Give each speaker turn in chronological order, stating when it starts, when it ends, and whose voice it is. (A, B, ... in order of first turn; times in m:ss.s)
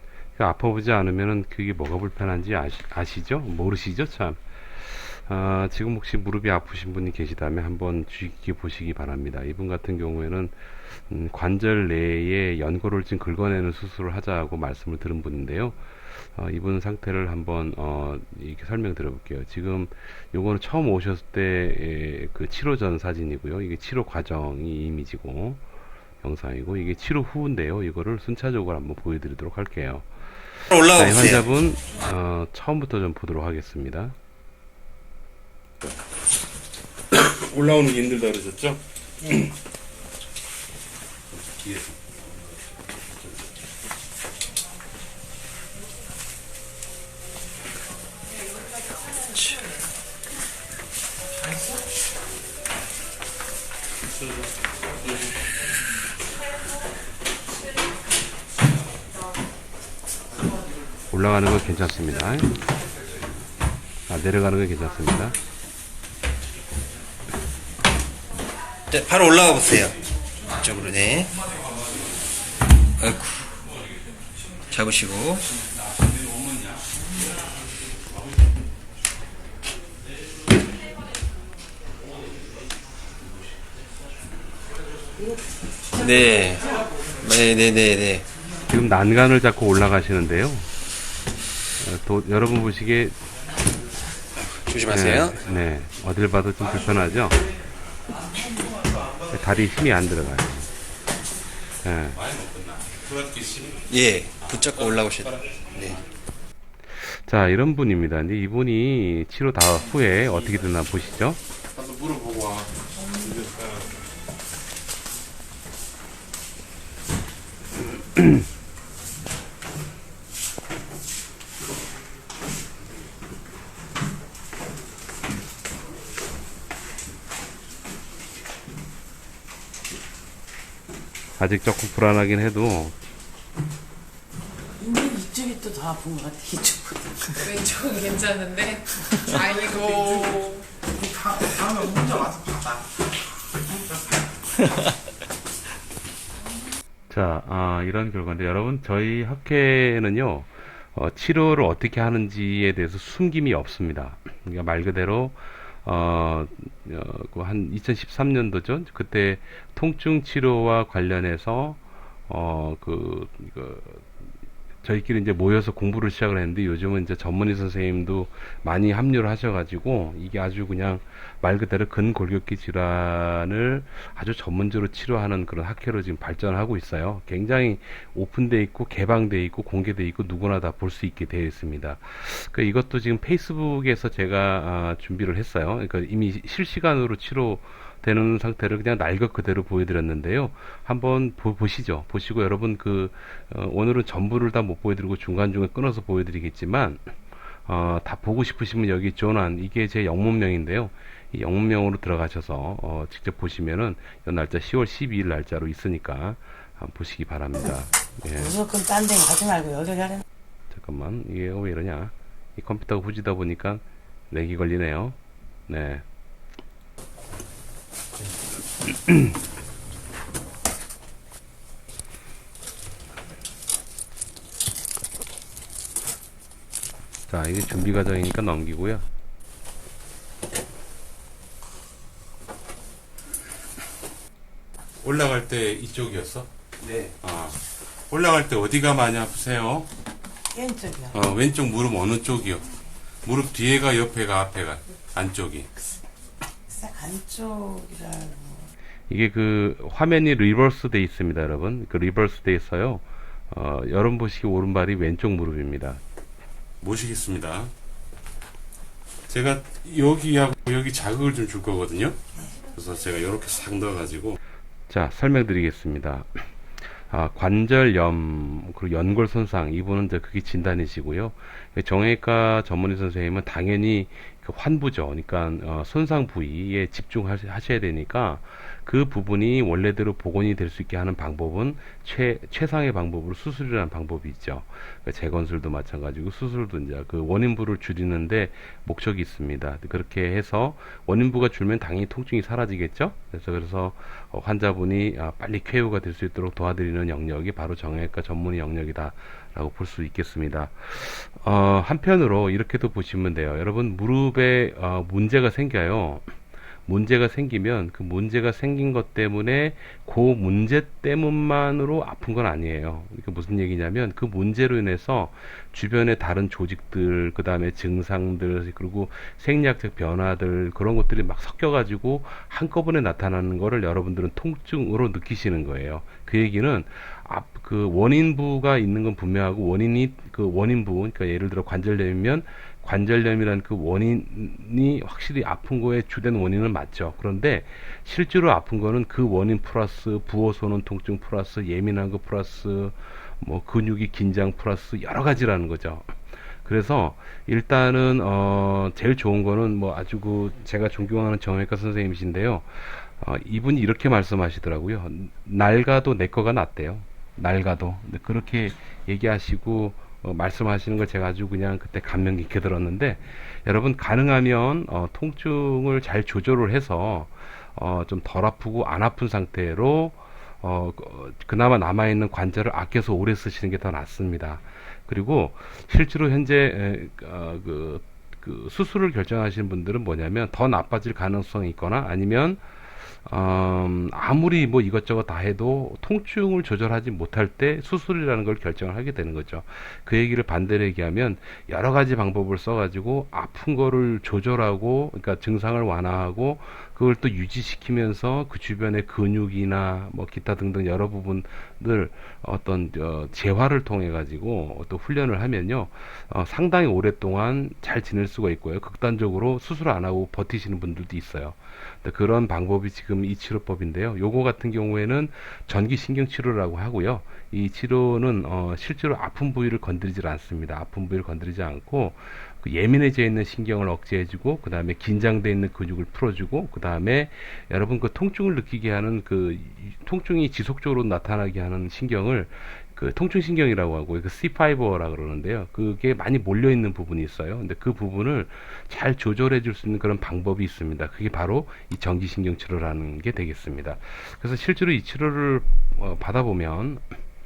0:00.4-0:25.6 A
0:26.2-0:34.1 A
0:30.7-0:31.4 B
0:37.1-0:39.5 A
0:41.6-0:41.8 A
1:01.1-1:02.5 A
1:04.1-1:05.4 A
1:08.9-1:09.9 B
1:10.6-1:11.3 B
1:13.0-1:13.5 B
1:14.7-1:15.5 B
1:25.9-1:28.2 B
1:28.7-1:30.7 A
1:31.8-1:33.2 A
1:34.4-1:35.4 B
1:34.9-1:37.4 A
1:39.3-1:40.7 A
1:41.8-1:43.2 A
1:42.2-1:43.8 C
1:43.9-1:46.0 B
1:44.5-1:44.8 C
1:46.9-1:52.4 A
1:51.7-1:54.0 C
2:11.4-2:13.0 A
2:14.8-2:17.5 D
2:17.5-2:18.8 E
2:19.1-2:19.5 D
2:19.3-2:20.6 E
2:21.2-2:22.7 D
2:27.1-2:44.1 A
2:44.8-3:17.1 A
3:17.6-3:28.6 A
3:28.3-3:30.2 D
3:30.7-3:35.2 A
3:35.7-3:36.0 A
3:47.3-3:49.0 A
3:55.0-3:56.4 C
3:56.8-3:57.1 B
3:57.2-3:57.5 C
3:58.1-3:59.8 C
4:00.5-4:01.2 D
4:01.1-4:02.6 C
4:03.2-4:05.6 C
4:03.6-4:05.6 A
4:06.7-4:08.7 D
4:09.1-4:16.0 A
4:16.8-4:17.7 C
4:19.3-4:22.1 C
4:21.5-4:21.8 A
4:22.7-4:24.4 C
4:24.9-5:06.3 A
5:06.8-6:22.6 A
6:23.2-7:27.0 A